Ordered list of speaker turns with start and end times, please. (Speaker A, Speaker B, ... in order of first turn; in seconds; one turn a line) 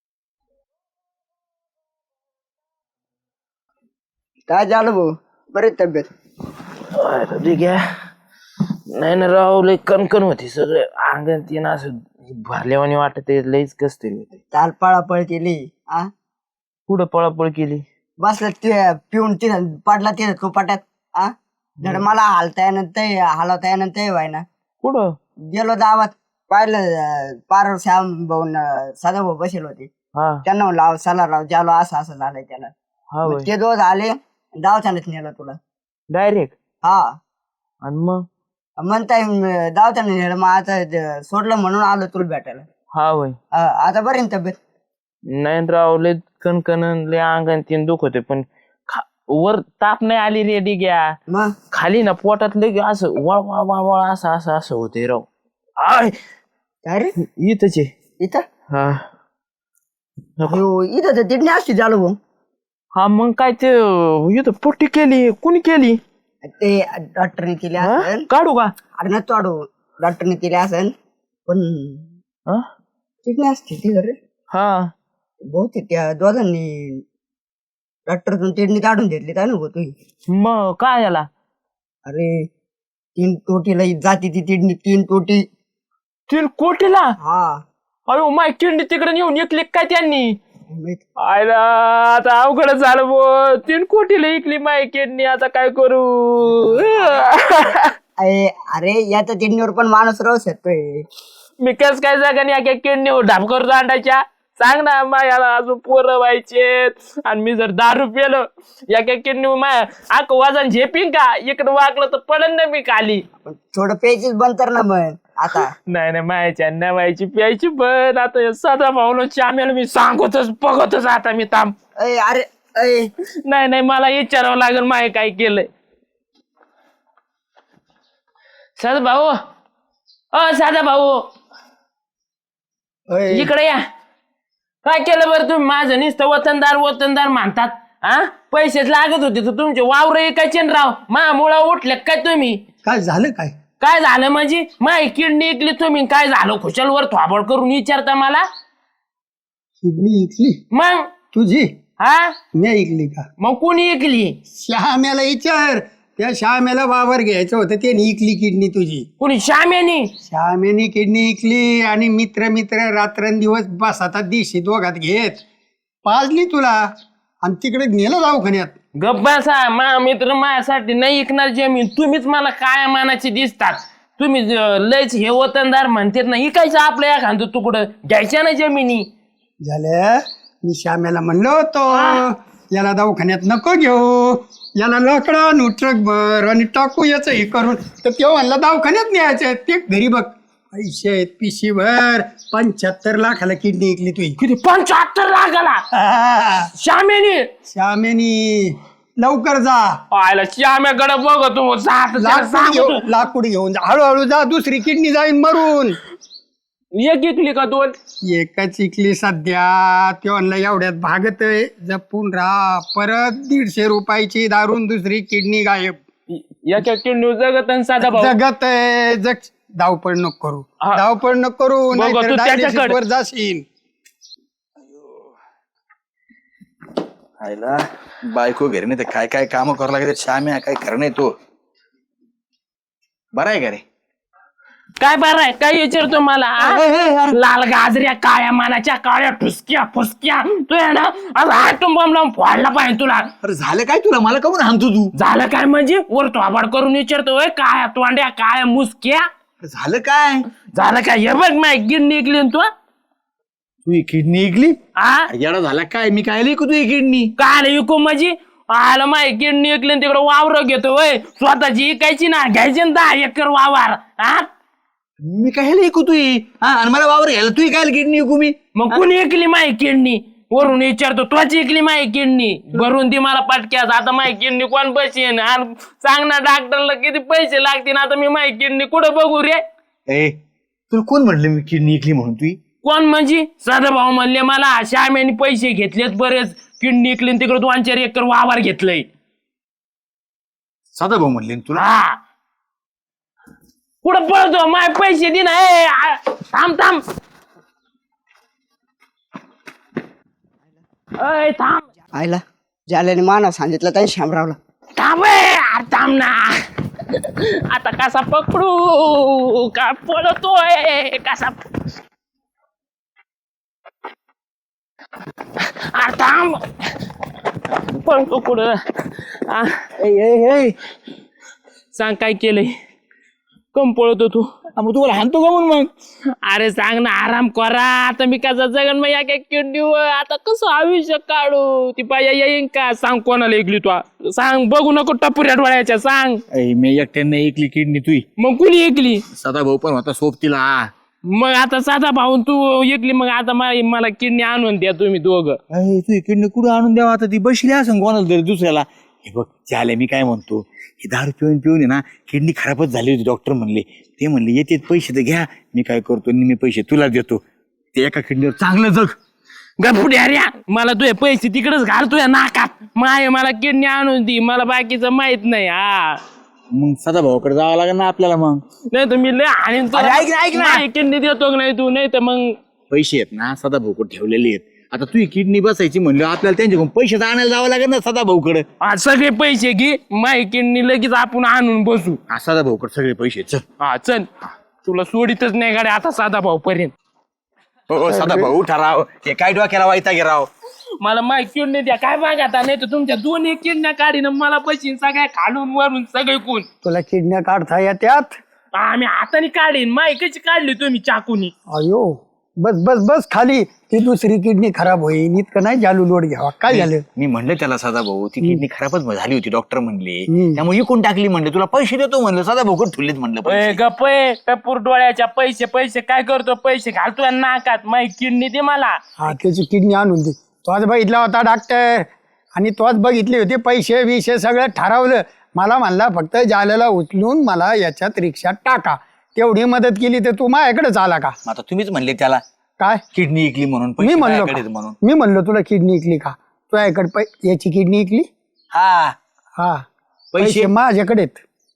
Speaker A: 4.5-6.1
Speaker B: 6.9-7.9
Speaker B: 8.9-14.4
Speaker A: 14.5-16.1
Speaker B: 16.9-17.9
Speaker A: 18.2-24.4
Speaker B: 24.8-25.2
Speaker A: 25.5-29.9
Speaker B: 30.2-30.4
Speaker A: 30.4-32.7
Speaker B: 33.1-33.5
Speaker A: 33.2-35.6
Speaker B: 36.1-36.5
Speaker A: 36.8-37.2
Speaker B: 37.8-38.2
Speaker A: 38.8-42.7
Speaker B: 42.9-43.4
Speaker A: 43.5-44.6
Speaker B: 45.3-51.1
Speaker B: 51.7-55.3
Speaker B: 55.8-56.1
Speaker A: 56.9-57.1
Speaker B: 57.2-57.9
Speaker A: 58.2-58.5
Speaker B: 58.7-59.0
Speaker A: 60.5-62.2
Speaker B: 63.0-66.0
Speaker A: 66.4-68.2
Speaker B: 67.8-68.7
Speaker A: 69.0-70.9
Speaker A: 71.5-72.1
Speaker A: 73.2-74.2
Speaker B: 74.5-74.9
Speaker A: 75.5-77.0
Speaker A: 78.1-79.9
Speaker B: 80.3-81.3
Speaker A: 82.1-82.5
Speaker A: 83.2-85.5
Speaker B: 86.3-87.2
Speaker A: 87.2-87.6
Speaker B: 88.1-90.4
Speaker A: 90.7-91.0
Speaker B: 91.2-97.9
Speaker A: 98.2-101.1
Speaker B: 101.6-113.2
Speaker A: 113.4-115.7
Speaker B: 115.9-121.8
Speaker A: 122.0-123.1
Speaker B: 123.5-125.7
Speaker B: 128.8-129.4
Speaker B: 130.3-131.3
Speaker C: 133.1-133.5
Speaker B: 133.3-133.8
Speaker B: 134.8-142.6
Speaker C: 142.8-143.5
Speaker B: 143.8-148.4
Speaker C: 149.8-150.6
Speaker B: 150.7-151.1
Speaker C: 151.3-151.7
Speaker B: 152.0-152.3
Speaker C: 152.6-153.2
Speaker B: 153.4-154.4
Speaker C: 154.5-159.1
Speaker B: 159.2-160.1
Speaker C: 160.2-165.4
Speaker C: 166.1-166.9
Speaker C: 167.4-168.7
Speaker B: 169.0-179.1
Speaker C: 179.6-194.4
Speaker B: 181.9-182.2
Speaker B: 194.4-195.8
Speaker C: 195.9-196.7
Speaker B: 196.7-197.5
Speaker C: 197.7-200.0
Speaker B: 200.1-203.1
Speaker C: 202.2-206.0
Speaker B: 206.9-207.9
Speaker C: 208.2-216.0
Speaker B: 216.3-218.4
Speaker C: 218.0-223.6
Speaker B: 221.9-223.0
Speaker D: 227.4-231.3
Speaker D: 233.3-233.8
Speaker B: 235.0-243.3
Speaker D: 236.6-237.4
Speaker D: 243.4-245.1
Speaker B: 245.2-249.3
Speaker D: 249.6-250.5
Speaker B: 250.7-252.7
Speaker D: 253.9-254.8
Speaker B: 255.0-255.3
Speaker D: 255.3-257.3
Speaker B: 257.4-264.5
Speaker D: 265.2-269.0
Speaker B: 268.8-279.6
Speaker D: 280.1-280.4
Speaker D: 280.9-282.6
Speaker B: 282.8-289.1
Speaker D: 290.9-291.8
Speaker B: 291.8-292.2
Speaker B: 294.0-297.0
Speaker B: 301.2-301.9
Speaker A: 302.1-304.6
Speaker B: 305.0-311.6
Speaker B: 315.6-316.9
Speaker B: 317.7-319.9
Speaker D: 320.0-320.8
Speaker B: 321.9-322.7
Speaker B: 323.7-324.5
Speaker D: 324.8-325.9
Speaker B: 326.4-336.4
Speaker D: 336.5-338.3
Speaker B: 338.4-339.2
Speaker D: 339.3-340.9
Speaker B: 341.3-345.6
Speaker D: 345.7-357.4
Speaker D: 357.9-359.2
Speaker B: 359.8-366.2
Speaker D: 366.7-368.6
Speaker B: 368.9-372.6
Speaker D: 369.9-370.9
Speaker D: 372.9-378.7
Speaker B: 378.8-382.2
Speaker D: 382.3-383.6
Speaker B: 383.8-384.3
Speaker B: 384.8-386.9
Speaker D: 387.9-390.5
Speaker C: 388.1-388.6
Speaker B: 391.0-396.7
Speaker C: 396.8-398.4
Speaker B: 398.8-401.5
Speaker C: 401.7-407.0
Speaker D: 406.7-413.8
Speaker C: 410.3-410.6
Speaker B: 413.4-419.0
Speaker C: 419.2-431.4
Speaker D: 431.5-432.4
Speaker C: 432.8-433.0
Speaker D: 433.1-435.0
Speaker C: 434.0-438.3
Speaker D: 438.7-439.2
Speaker C: 439.6-439.8
Speaker D: 440.3-440.7
Speaker C: 440.4-441.4